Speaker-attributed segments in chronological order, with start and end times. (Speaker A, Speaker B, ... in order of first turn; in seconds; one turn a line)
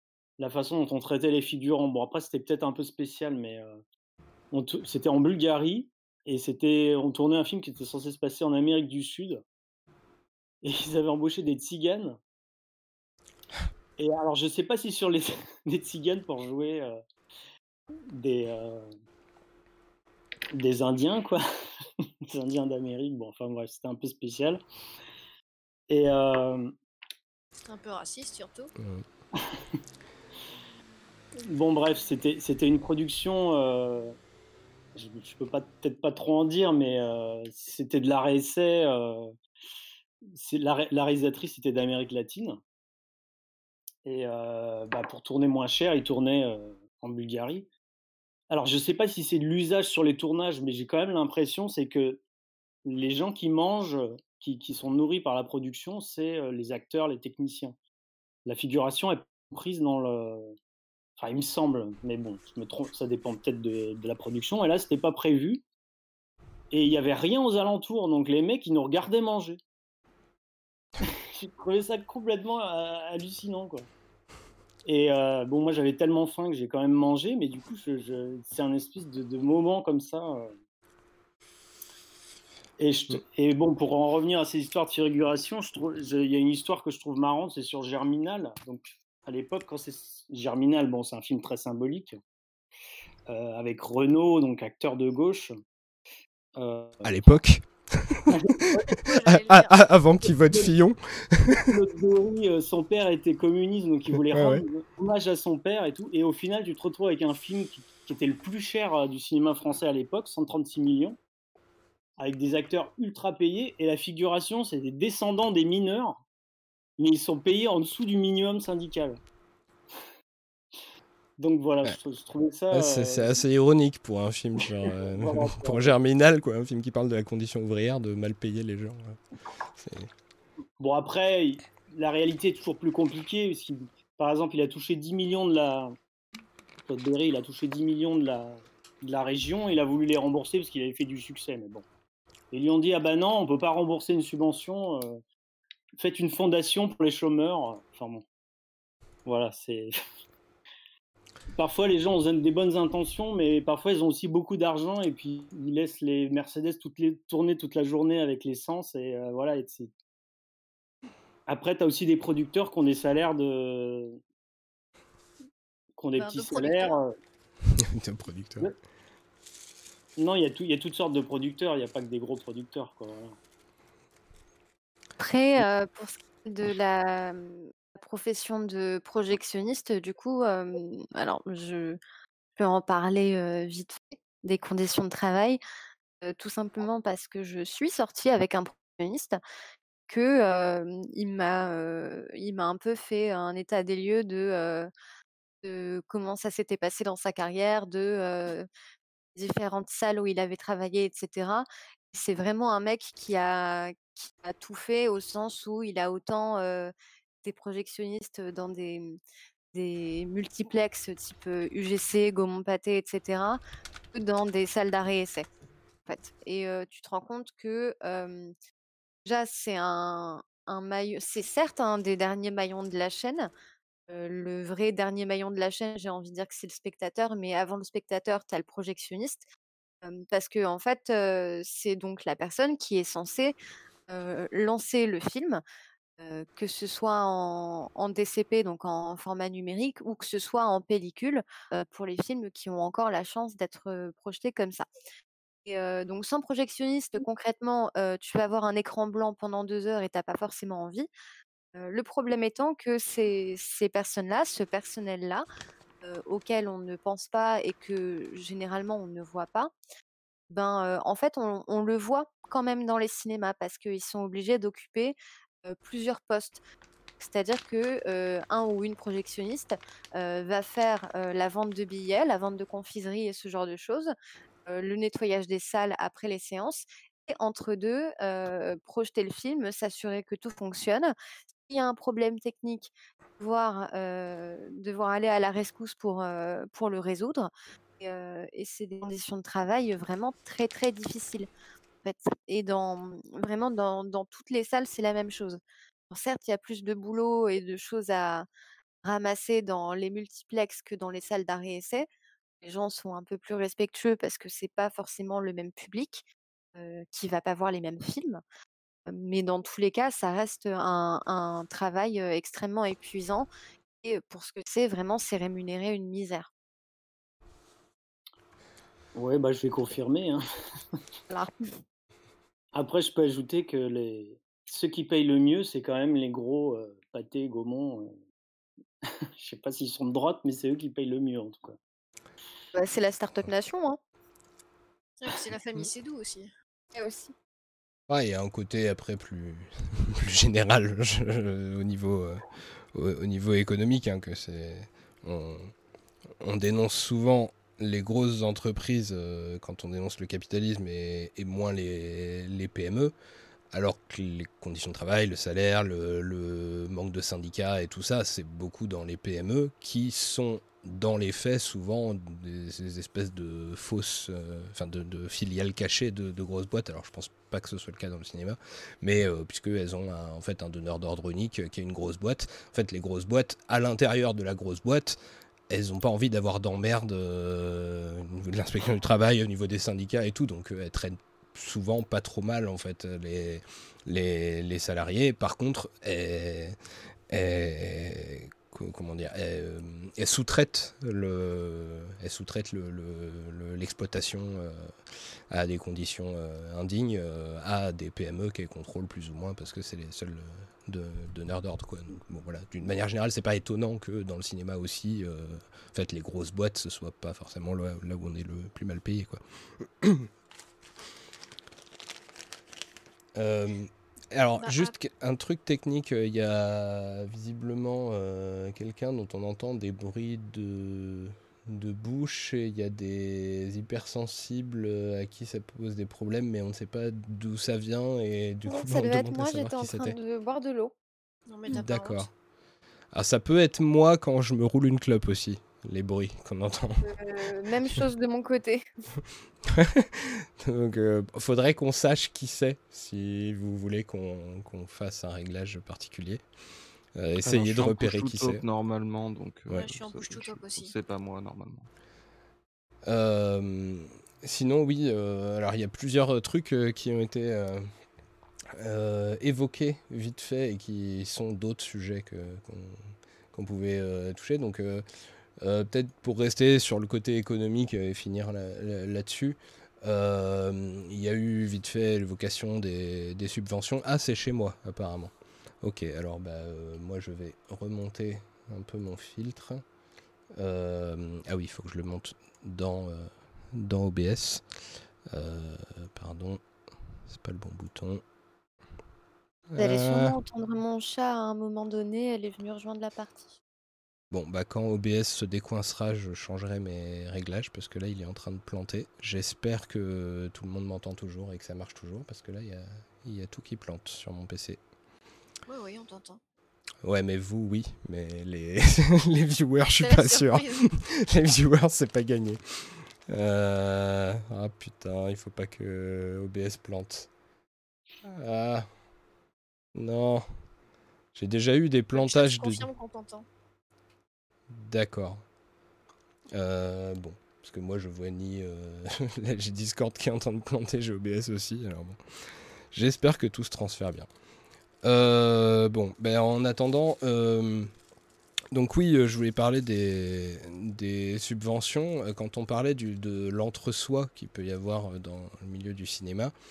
Speaker A: 0.4-3.8
Speaker A: 4.5-9.4
Speaker A: 10.6-12.2
Speaker A: 14.0-17.0
Speaker A: 18.1-18.9
Speaker A: 20.5-21.4
Speaker A: 22.3-24.6
Speaker A: 25.9-26.7
Speaker B: 27.7-28.7
Speaker C: 28.8-29.0
Speaker A: 29.4-29.6
Speaker A: 31.4-34.1
Speaker A: 34.9-39.3
Speaker A: 40.2-42.6
Speaker A: 44.0-47.7
Speaker A: 48.5-52.2
Speaker A: 52.9-57.8
Speaker A: 58.5-60.5
Speaker A: 61.2-65.6
Speaker A: 66.7-69.6
Speaker A: 71.3-73.9
Speaker A: 74.8-80.5
Speaker A: 82.8-92.2
Speaker A: 93.3-95.5
Speaker A: 96.5-97.2
Speaker C: 97.0-101.8
Speaker A: 98.3-98.9
Speaker B: 99.0-99.9
Speaker A: 100.3-100.7
Speaker A: 101.6-111.2
Speaker C: 104.3-104.6
Speaker A: 112.2-116.2
Speaker A: 117.0-119.2
Speaker A: 121.4-123.4
Speaker C: 122.7-129.2
Speaker A: 124.9-125.9
Speaker C: 129.8-130.1
Speaker A: 130.8-135.9
Speaker A: 136.8-141.8
Speaker A: 142.5-145.2
Speaker A: 145.9-148.2
Speaker A: 149.2-149.9
Speaker A: 151.6-159.9
Speaker A: 161.5-164.2
Speaker A: 166.0-167.1
Speaker B: 166.2-167.0
Speaker C: 167.7-168.7
Speaker A: 170.2-173.4
Speaker D: 175.2-182.0
Speaker D: 182.6-185.6
Speaker D: 186.2-189.4
Speaker D: 190.1-194.9
Speaker D: 195.6-198.7
Speaker D: 199.3-209.2
Speaker D: 209.7-213.6
Speaker D: 214.1-215.5
Speaker D: 216.1-218.5
Speaker D: 219.2-223.5
Speaker D: 224.1-229.4
Speaker D: 230.0-233.6
Speaker D: 234.1-235.6
Speaker D: 236.2-244.8
Speaker D: 245.6-251.1
Speaker D: 251.7-255.4
Speaker D: 256.0-259.7
Speaker D: 260.5-266.6
Speaker D: 267.2-274.1
Speaker D: 274.6-281.1
Speaker D: 281.7-291.5
Speaker D: 292.0-298.5
Speaker D: 299.0-302.1
Speaker D: 302.6-308.4
Speaker D: 309.1-313.5
Speaker D: 314.0-316.5
Speaker A: 319.1-320.4
Speaker A: 322.7-328.2
Speaker A: 329.0-331.8
Speaker D: 332.7-334.0
Speaker B: 335.2-336.5
Speaker D: 336.9-337.3
Speaker C: 338.1-345.7
Speaker C: 346.4-353.1
Speaker C: 353.7-375.2
Speaker C: 375.7-386.8
Speaker C: 387.3-394.9
Speaker C: 395.5-410.3
Speaker C: 413.4-430.1
Speaker B: 414.6-414.9
Speaker D: 428.6-430.9
Speaker B: 431.5-432.3
Speaker C: 431.7-432.3
Speaker C: 433.1-437.1
Speaker D: 437.0-438.9
Speaker C: 439.6-446.4
Speaker C: 447.1-448.6
Speaker E: 447.4-451.9
Speaker B: 449.7-450.9
Speaker C: 453.1-457.9
Speaker C: 458.7-465.0
Speaker C: 465.6-479.8
Speaker C: 480.5-484.6
Speaker C: 485.3-486.6
Speaker C: 487.3-488.2
Speaker C: 489.7-490.4
Speaker D: 489.8-493.6
Speaker C: 494.3-504.8
Speaker B: 505.7-506.4
Speaker C: 507.0-517.3
Speaker B: 510.0-510.8
Speaker C: 518.2-518.9
Speaker C: 519.9-520.4
Speaker C: 521.3-522.9
Speaker B: 522.1-523.5
Speaker C: 524.7-525.4
Speaker C: 526.5-532.2
Speaker C: 532.9-534.3
Speaker C: 535.0-537.9
Speaker C: 538.7-546.5